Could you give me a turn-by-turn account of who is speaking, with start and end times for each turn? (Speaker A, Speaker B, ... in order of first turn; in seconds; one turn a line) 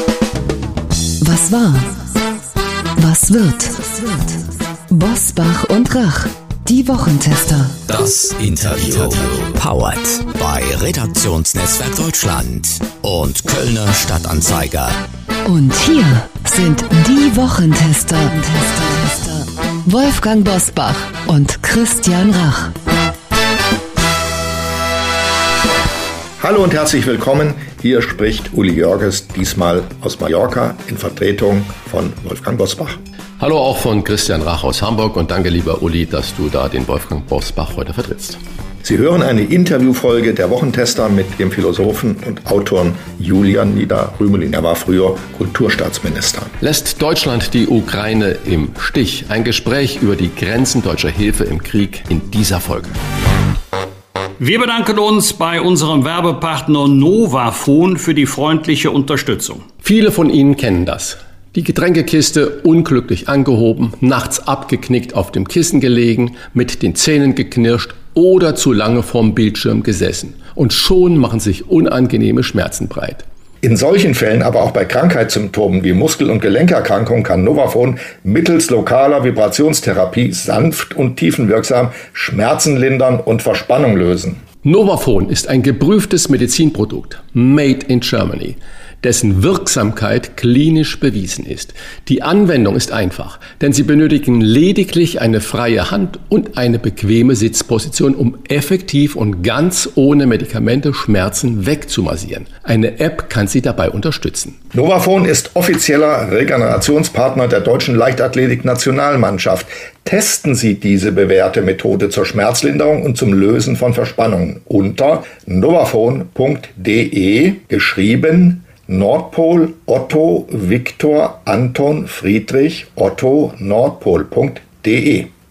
Speaker A: 1.2-2.0
Speaker A: 3.0-7.8
Speaker B: 7.9-15.0
Speaker A: 15.4-22.7
Speaker C: 26.4-33.0
Speaker D: 33.4-38.4
Speaker C: 38.8-46.5
Speaker D: 46.6-53.0
Speaker E: 54.4-59.6
Speaker D: 59.8-73.2
Speaker C: 73.6-84.4
Speaker D: 84.6-104.6
Speaker C: 104.7-125.3